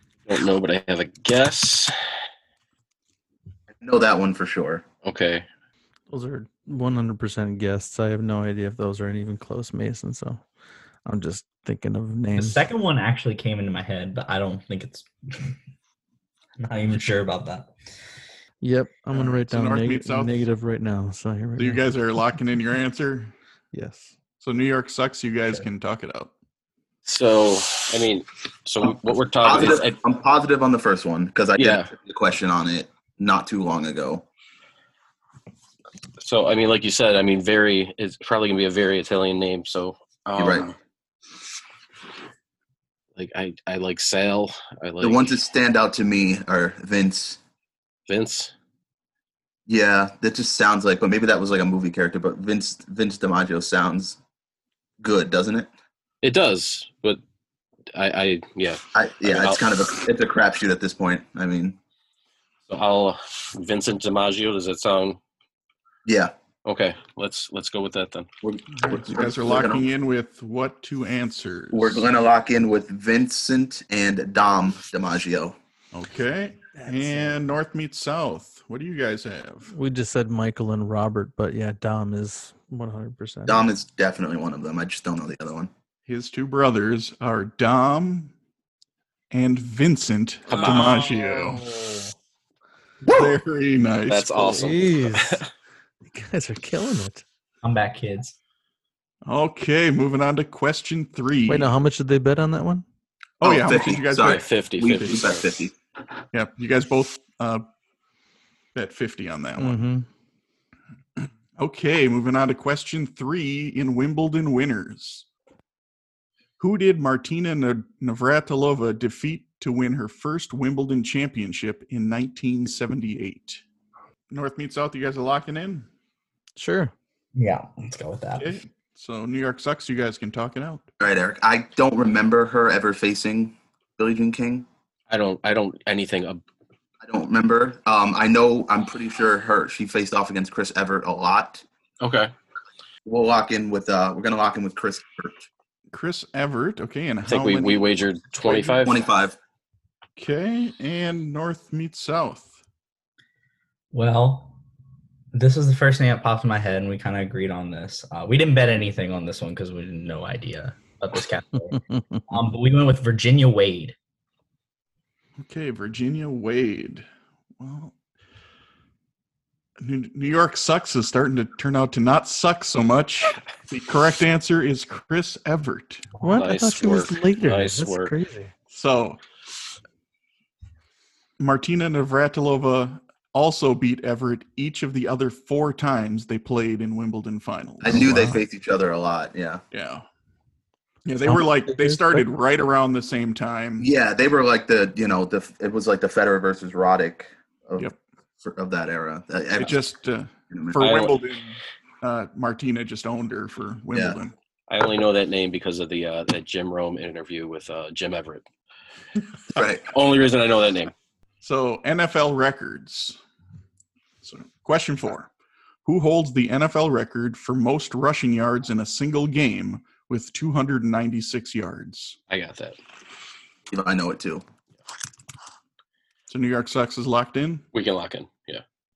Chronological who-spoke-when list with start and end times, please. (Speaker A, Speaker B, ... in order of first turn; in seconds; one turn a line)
Speaker A: 0.3-1.9
Speaker B: 3.8-4.8
Speaker A: 5.0-5.5
Speaker C: 6.1-10.4
Speaker C: 11.1-12.6
Speaker D: 12.3-15.6
Speaker D: 16.6-17.7
Speaker C: 18.6-21.9
Speaker E: 19.1-20.4
Speaker E: 21.6-23.4
Speaker C: 23.7-24.2
Speaker E: 24.4-26.3
Speaker A: 27.1-30.0
Speaker B: 29.4-34.2
Speaker A: 31.6-31.9
Speaker A: 36.2-40.8
Speaker B: 40.4-40.7
Speaker A: 43.1-45.4
Speaker B: 45.0-47.4
Speaker A: 48.1-48.5
Speaker B: 49.7-54.2
Speaker B: 55.0-55.7
Speaker A: 56.2-57.2
Speaker A: 57.9-59.6
Speaker B: 59.0-61.8
Speaker A: 62.7-65.2
Speaker B: 66.1-66.3
Speaker A: 66.7-68.3
Speaker B: 68.4-69.9
Speaker E: 68.7-72.0
Speaker B: 71.7-75.6
Speaker E: 75.9-79.7
Speaker C: 76.8-77.4
Speaker C: 79.7-83.7
Speaker B: 83.5-85.7
Speaker E: 86.1-88.3
Speaker E: 89.3-91.7
Speaker A: 90.5-91.2
Speaker C: 91.6-92.0
Speaker B: 93.0-93.4
Speaker E: 93.1-94.8
Speaker A: 94.1-95.5
Speaker C: 94.6-95.5
Speaker C: 96.0-97.2
Speaker D: 97.6-98.3
Speaker E: 99.2-101.7
Speaker C: 101.5-102.8
Speaker E: 103.4-104.5
Speaker B: 103.4-105.7
Speaker A: 104.2-105.5
Speaker E: 106.3-107.7
Speaker E: 108.8-109.8
Speaker C: 109.6-110.1
Speaker E: 111.2-115.3
Speaker E: 116.6-123.6
Speaker E: 124.3-125.9
Speaker C: 126.6-126.9
Speaker D: 127.3-128.6
Speaker E: 128.4-130.9
Speaker B: 131.0-134.7
Speaker A: 135.1-136.4
Speaker B: 137.0-141.7
Speaker A: 142.0-142.3
Speaker B: 143.1-145.5
Speaker E: 145.9-147.9
Speaker A: 147.3-149.0
Speaker B: 148.5-149.4
Speaker E: 150.2-152.6
Speaker D: 153.9-154.6
Speaker D: 155.3-163.9
Speaker E: 165.4-167.1
Speaker E: 167.6-167.9
Speaker E: 169.8-176.1
Speaker C: 176.2-178.5
Speaker A: 176.2-178.1
Speaker E: 178.7-179.2
Speaker E: 181.4-188.4
Speaker B: 187.8-189.6
Speaker C: 188.0-188.4
Speaker E: 189.7-190.1
Speaker E: 191.1-193.9
Speaker C: 191.2-192.2
Speaker B: 193.8-197.9
Speaker B: 198.4-199.8
Speaker E: 199.6-204.3
Speaker B: 200.5-200.8
Speaker A: 200.8-201.2
Speaker B: 203.9-204.2
Speaker A: 204.7-208.4
Speaker B: 209.5-209.9
Speaker A: 209.9-210.9
Speaker E: 211.4-213.2
Speaker E: 214.2-215.3
Speaker E: 215.8-222.2
Speaker A: 222.3-222.8
Speaker B: 223.7-224.4
Speaker E: 226.3-227.7
Speaker A: 227.7-228.6